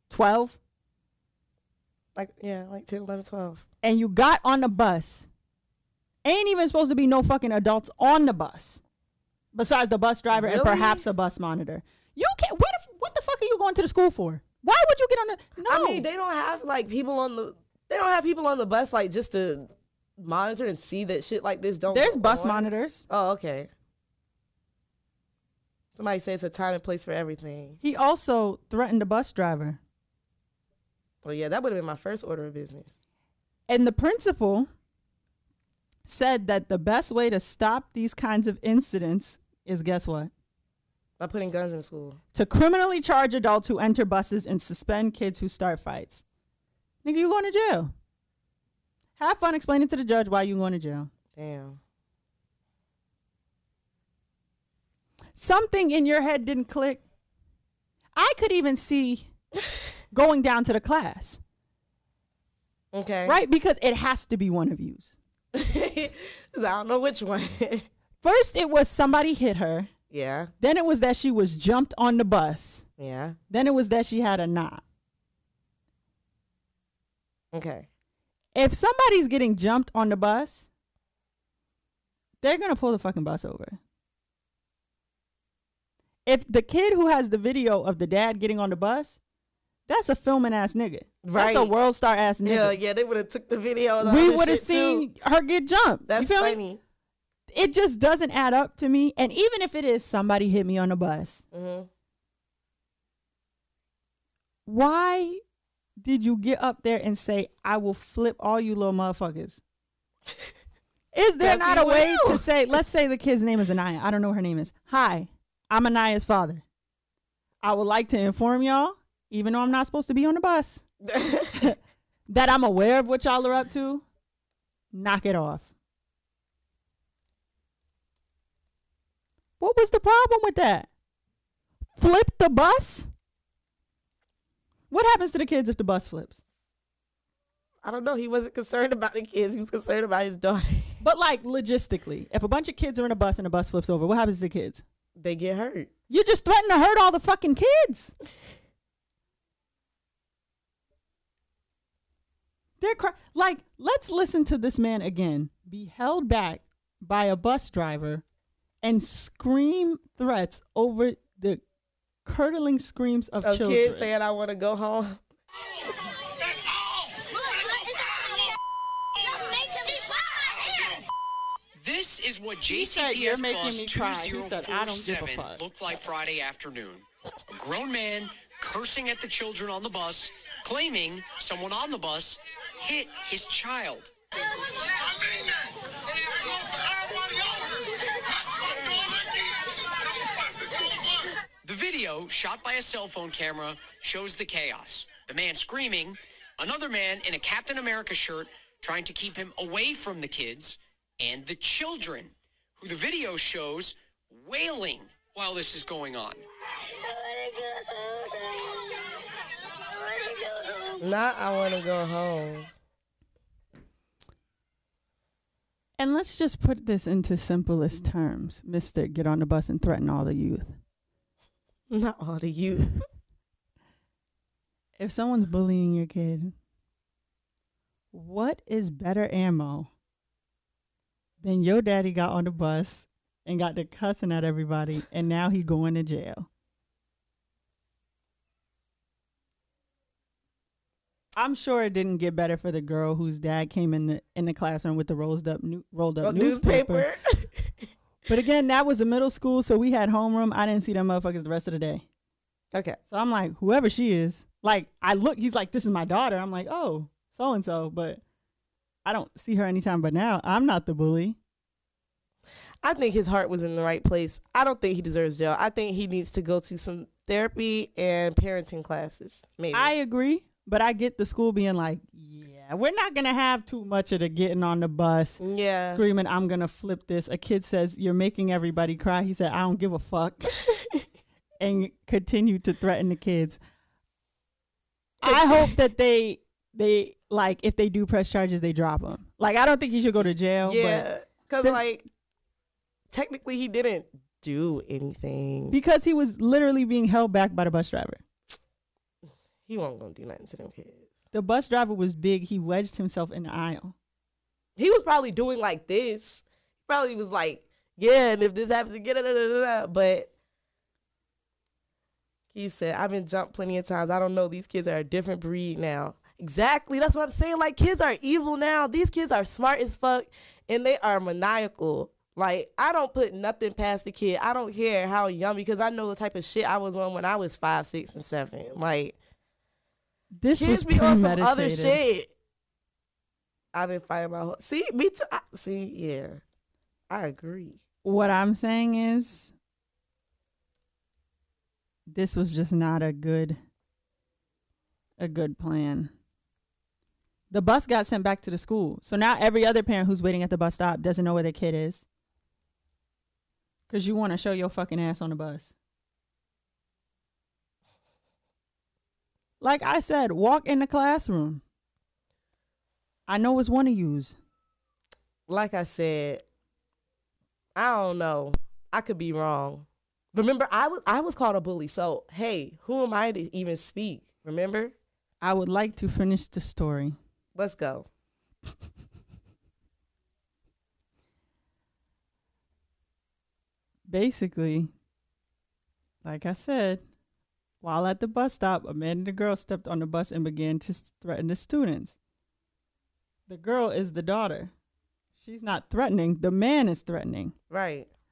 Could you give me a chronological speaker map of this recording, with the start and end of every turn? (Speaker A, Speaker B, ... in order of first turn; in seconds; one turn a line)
Speaker A: 0.1-0.6
Speaker B: 2.2-3.6
Speaker A: 3.8-5.3
Speaker A: 6.2-8.8
Speaker A: 9.5-16.1
Speaker B: 10.3-11.1
Speaker B: 15.7-23.7
Speaker A: 21.9-23.1
Speaker B: 26.0-27.8
Speaker A: 27.8-29.8
Speaker B: 31.2-33.0
Speaker A: 33.7-34.7
Speaker A: 36.1-40.3
Speaker B: 41.2-42.2
Speaker A: 42.3-46.2
Speaker A: 47.0-47.9
Speaker A: 49.2-51.1
Speaker B: 51.4-51.8
Speaker A: 55.4-57.0
Speaker A: 58.1-59.3
Speaker A: 60.1-61.4
Speaker B: 62.9-63.4
Speaker A: 63.3-65.2
Speaker B: 65.5-67.9
Speaker A: 68.2-69.9
Speaker B: 70.1-70.5
Speaker A: 70.6-72.8
Speaker B: 73.0-73.4
Speaker A: 73.5-74.8
Speaker B: 77.5-77.9
Speaker A: 78.5-80.7
Speaker A: 82.4-83.8
Speaker A: 86.3-89.2
Speaker A: 89.9-92.8
Speaker B: 91.2-91.7
Speaker B: 92.4-95.0
Speaker A: 94.0-96.6
Speaker B: 96.1-96.8
Speaker A: 97.5-101.5
Speaker B: 101.5-101.9
Speaker A: 104.7-105.4
Speaker A: 106.0-109.6
Speaker A: 111.1-116.6
Speaker B: 111.4-112.5
Speaker A: 117.6-120.8
Speaker B: 121.0-121.6
Speaker A: 121.5-124.0
Speaker A: 124.9-125.7
Speaker A: 129.6-130.9
Speaker A: 132.0-133.1
Speaker A: 134.9-136.4
Speaker B: 137.8-141.0
Speaker A: 141.0-144.8
Speaker B: 145.2-145.9
Speaker A: 146.1-148.1
Speaker A: 152.8-158.2
Speaker A: 158.8-161.6
Speaker A: 162.2-164.1
Speaker B: 163.4-165.2
Speaker C: 171.8-184.1
Speaker A: 172.7-176.0
Speaker C: 191.6-206.4
Speaker B: 211.0-212.7
Speaker A: 216.0-220.8
Speaker B: 221.9-223.0
Speaker A: 225.0-226.6
Speaker A: 228.1-229.9
Speaker A: 231.4-236.5
Speaker A: 241.4-247.1
Speaker B: 246.2-247.9
Speaker A: 248.3-252.1
Speaker B: 252.7-253.0
Speaker A: 253.1-258.2
Speaker A: 259.1-261.4
Speaker B: 262.8-269.9
Speaker A: 269.7-280.5
Speaker B: 275.4-276.0
Speaker B: 280.7-281.0
Speaker A: 281.6-283.6
Speaker A: 285.2-291.1
Speaker B: 285.3-285.8
Speaker B: 290.6-292.1
Speaker B: 293.1-295.8
Speaker A: 295.7-298.2
Speaker B: 299.7-301.1
Speaker A: 301.3-303.9
Speaker B: 304.8-310.3
Speaker B: 312.5-329.2
Speaker A: 330.4-332.0
Speaker B: 330.5-332.3
Speaker B: 333.7-336.4
Speaker B: 337.1-337.8
Speaker A: 338.0-339.5
Speaker A: 342.1-343.6
Speaker A: 345.2-346.1
Speaker A: 347.5-352.1
Speaker A: 353.9-355.7
Speaker A: 359.6-361.6
Speaker A: 363.3-364.4
Speaker B: 365.5-366.4
Speaker B: 367.8-374.9
Speaker A: 375.4-377.2
Speaker B: 377.6-378.1
Speaker A: 384.1-384.9
Speaker A: 386.2-387.0
Speaker A: 387.8-392.2
Speaker A: 393.5-394.7
Speaker A: 395.4-397.5
Speaker B: 397.7-398.1